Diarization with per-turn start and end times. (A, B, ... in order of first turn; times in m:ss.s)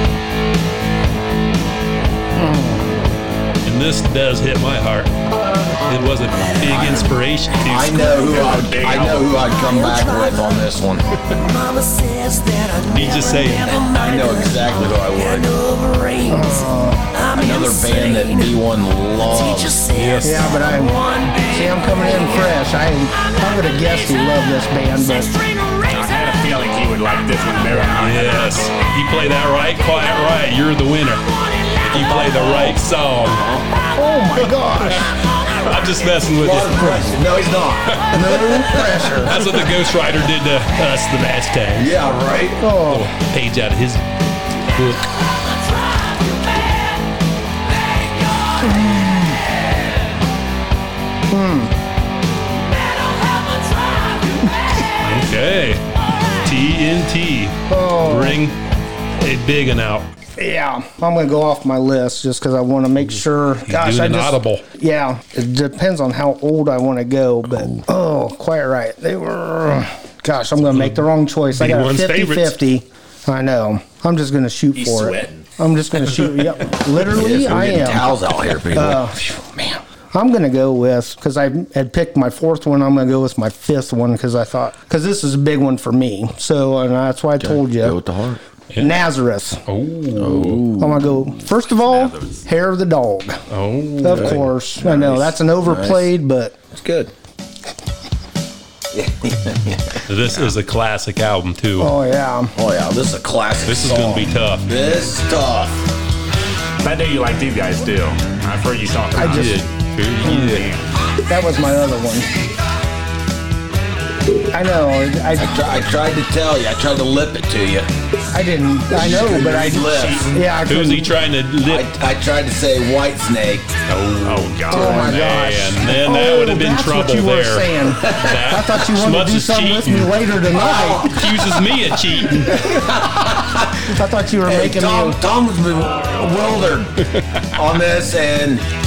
0:02.3-0:03.0 A
0:03.6-0:05.1 B
0:05.8-0:08.4 B
0:06.6-0:07.0 C
0:07.6-0:11.0 C
0:08.0-0:08.4 D
0:08.2-0:09.4 E
0:09.4-0:10.6 D
0:11.3-0:18.6 D
0:12.9-0:13.8 B
0:13.8-0:15.6 C
0:16.3-0:17.0 A
0:17.3-0:19.8 C
0:19.2-0:22.6 D
0:19.9-0:20.5 B
0:20.2-0:25.3 A
0:25.1-0:26.3 D
0:25.9-0:28.6 E
0:27.7-0:31.2 B
0:31.8-0:33.5 B
0:32.0-0:32.8 C
0:33.4-0:33.6 C
0:33.9-0:35.2 A
0:34.4-0:37.1 B
0:36.3-0:38.8 C
0:37.9-0:38.2 B
0:38.1-0:39.4 A
0:39.2-0:41.9 B
0:41.8-0:42.6 C
0:42.6-0:43.1 A
0:42.8-0:44.0 B
0:44.6-0:45.1 B
0:48.6-0:49.4 A
0:51.3-0:51.7 A
0:53.1-0:54.4 D
0:55.0-0:55.8 B
0:56.4-0:58.6 B
0:57.7-0:58.4 A
0:59.2-1:00.1 B
1:00.4-1:18.1 A
1:03.0-1:04.6 B
1:07.5-1:07.8 C
1:10.7-1:12.6 B
1:14.7-1:15.5 E
1:17.1-1:19.1 C
1:18.7-1:28.0 A
1:27.4-1:28.4 C
1:28.8-1:29.6 A
1:29.7-1:30.7 B
1:30.1-1:31.4 C
1:30.8-1:33.4 A
1:31.7-1:32.5 E
1:33.5-1:34.5 B
1:34.0-1:36.6 A
1:34.0-1:36.1 C
1:36.7-1:37.1 C
1:38.9-1:40.0 C
1:40.1-1:41.9 B
1:41.8-1:42.5 A
1:42.5-1:45.8 C
1:43.7-1:44.7 B
1:46.8-1:49.5 E
1:49.1-1:49.6 A
1:49.2-1:50.7 B
1:50.2-1:50.7 A
1:50.4-1:50.8 E
1:51.3-1:52.3 A
1:54.5-1:55.6 A
1:55.3-1:57.9 C
1:58.3-2:01.1 A
1:58.9-2:00.3 C
1:59.8-2:00.4 E
2:00.6-2:01.9 B
2:01.6-2:03.7 C
2:03.9-2:10.2 B
2:04.2-2:05.3 E
2:04.7-2:11.2 A
2:08.0-2:08.5 C
2:10.5-2:11.6 C
2:11.0-2:12.6 B
2:12.4-2:13.0 A
2:12.6-2:13.9 C
2:13.9-2:15.2 A
2:14.4-2:18.6 C
2:17.1-2:17.4 B